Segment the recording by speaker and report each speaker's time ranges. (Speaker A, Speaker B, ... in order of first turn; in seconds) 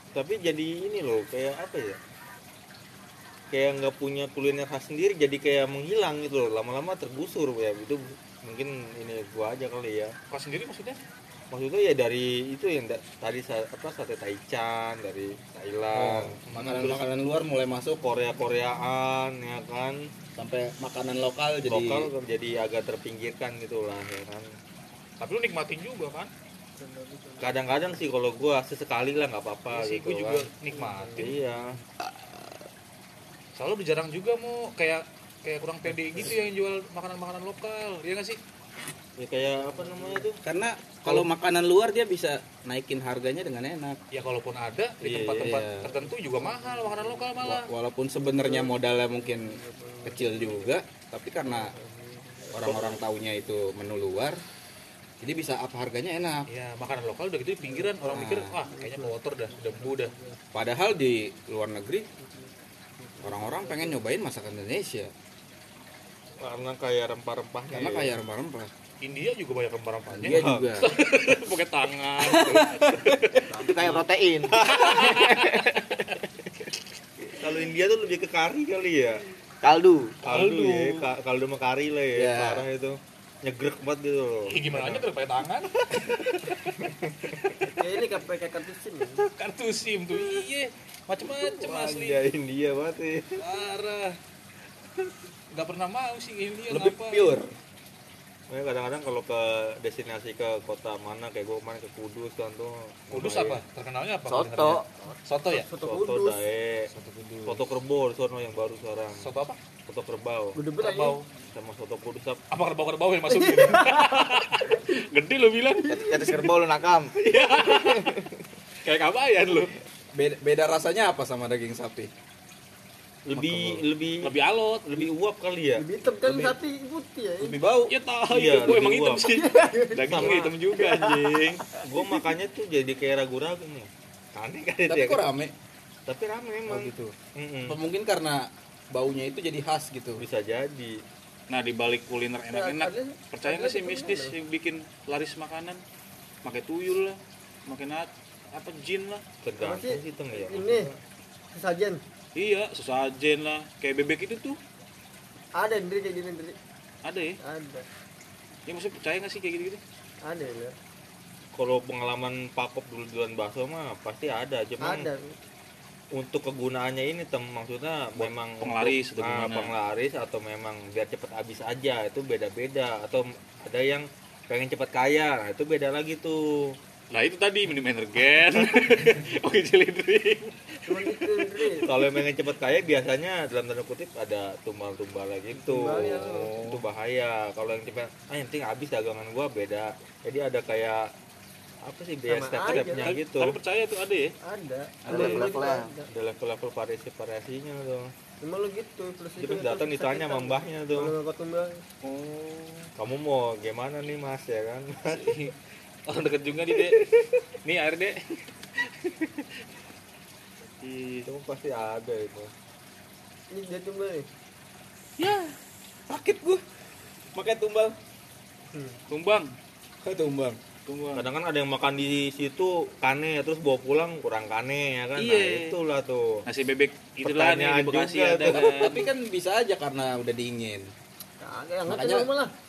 Speaker A: 0.1-2.0, 3.5-10.1, 11.5-16.4, 18.0-20.0, 21.7-24.5, 27.4-30.5, 31.2-31.8, 39.2-40.4, 45.0-45.9, 52.6-53.0, 66.4-68.2, 70.1-70.7, 74.5-75.1, 77.2-79.2, 80.2-85.1, 86.9-87.5, 91.3-93.4, 98.5-103.6, 105.8-106.9, 107.5-109.3, 109.9-110.6, 111.4-112.4, 123.3-124.3, 124.9-125.8, 128.3-129.2, 130.1-130.5, 131.3-135.2, 136.1-137.8, 140.2-141.0, 149.4-150.9, 161.5-165.1, 166.1-176.7, 181.9-191.1, 191.8-193.6, 196.1-198.1, 199.4-201.1, 203.0-205.4, 206.8-207.2, 211.2-212.5, 221.2-226.4, 227.2-228.9
Speaker B: 10.3-11.0, 16.5-17.0, 25.2-26.3, 29.7-31.4, 33.6-38.4, 44.1-47.7, 56.5-60.1, 69.0-73.5, 74.6-75.7, 80.3-81.1, 84.5-86.8, 89.2-92.2, 93.4-94.2, 95.0-97.3, 103.1-105.7, 109.2-109.6, 110.8-111.2, 112.5-116.5, 117.2-118.2, 118.8-119.7, 124.2-125.0, 127.9-131.5, 141.5-145.8, 146.4-149.2, 152.4-154.6, 157.0-157.4, 158.7-159.8, 168.2-169.7, 177.1-181.8, 186.1-186.8, 192.9-194.3, 195.1-195.4, 202.0-202.9, 205.1-205.6, 206.1-207.0, 207.6-209.5, 210.8-211.3, 215.2-215.6, 219.1-219.5, 220.9-221.2, 225.2-225.8, 226.5-229.1
Speaker C: 15.9-18.0, 20.4-22.1, 40.4-44.0, 47.4-51.7, 52.5-54.4, 55.2-56.5, 58.1-58.5, 60.5-62.1, 63.2-65.1, 67.7-68.7, 70.2-70.9, 72.2-73.4, 82.2-82.7, 96.7-97.5, 107.0-107.5, 120.2-122.1, 123.3-123.8, 127.4-127.9, 134.9-135.5, 136.7-137.2, 137.7-140.2, 216.1-216.6, 217.3-217.9, 220.0-220.6, 228.4-230.9, 231.9-232.3
Speaker D: 26.8-27.9, 30.7-31.4, 39.6-40.3, 45.9-47.4, 48.2-50.7, 51.5-52.9, 57.6-60.4, 62.2-62.5, 63.0-64.1, 87.7-89.2, 105.5-106.4, 110.5-111.2, 113.3-114.4, 125.8-127.6, 129.3-132.2, 142.5-144.3, 149.6-150.9, 151.5-152.0, 155.6-156.6, 157.4-157.9, 160.2-160.8, 164.8-165.3, 180.9-181.9, 185.6-186.5, 192.3-193.2, 194.4-196.1, 198.4-201.8, 213.5-214.3, 218.7-219.0, 231.4-232.5
Speaker E: 73.5-75.7, 79.6-80.2, 104.3-104.9, 115.9-117.1, 195.1-195.9